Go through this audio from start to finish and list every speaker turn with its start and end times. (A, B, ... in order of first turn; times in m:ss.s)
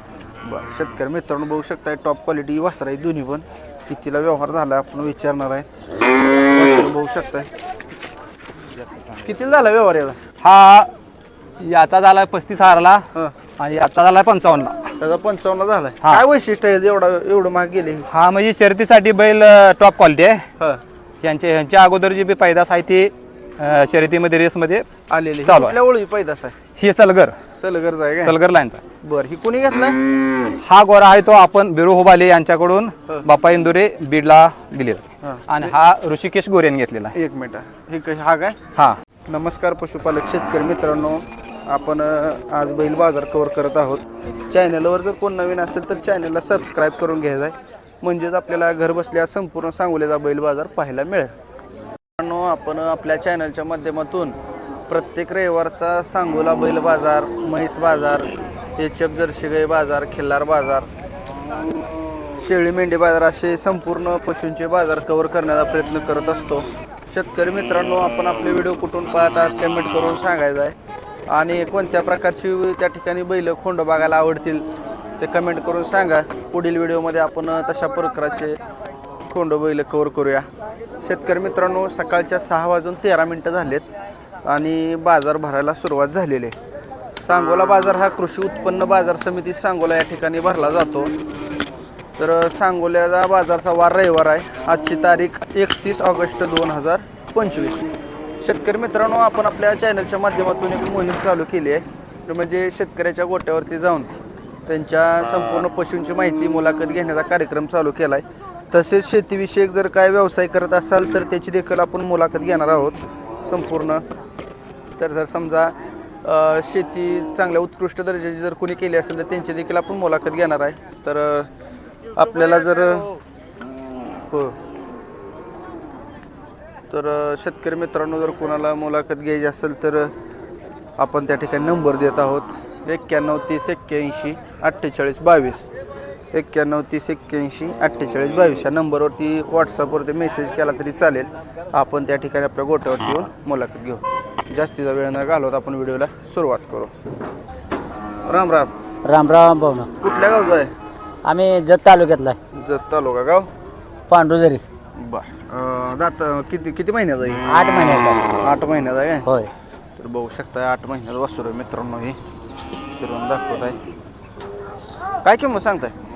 0:00.4-0:05.7 A
0:06.3-0:07.5 A
0:09.2-0:10.2 A
0:10.4-0:10.9 B
0:11.6-0:13.0 B
0:13.6-0:14.8 B
0:15.0-0:18.0 A
0:18.1-0:20.4 B
0:21.2-0:24.8 B
0:25.1-0:26.6 A
0:25.4-0:25.8 B
0:26.8-0:27.4 B
0:27.5-0:28.4 A
0:28.2-0:28.8 B
0:29.0-0:30.0 A
0:30.6-0:37.1 B
0:35.2-0:35.7 A
0:37.1-0:38.6 A
0:39.3-0:51.3 A
0:52.2-0:54.4 A
0:54.9-1:00.9 A
1:02.4-1:10.8 A
1:11.3-1:14.7 A
1:15.2-1:18.6 A
1:19.3-1:20.5 A
1:21.0-1:23.8 A
1:24.4-1:26.6 A
1:27.2-1:31.1 A
1:32.2-1:37.9 A
1:38.4-1:44.1 A
1:44.7-1:54.0 A
1:55.0-2:01.5 A
2:02.2-2:03.1 A
2:06.9-2:10.1 A
2:11.0-2:15.7 A
2:16.3-2:26.9 A
2:28.2-2:28.7 A
2:29.1-2:29.9 C
2:30.0-2:30.7 A
2:31.2-2:32.4 C
2:32.6-2:33.5 A
2:34.1-2:34.6 C
2:35.0-2:37.4 A
2:37.5-2:38.2 C
2:38.4-2:39.3 A
2:40.0-2:42.2 A
2:43.0-2:43.8 A
2:45.2-2:45.9 A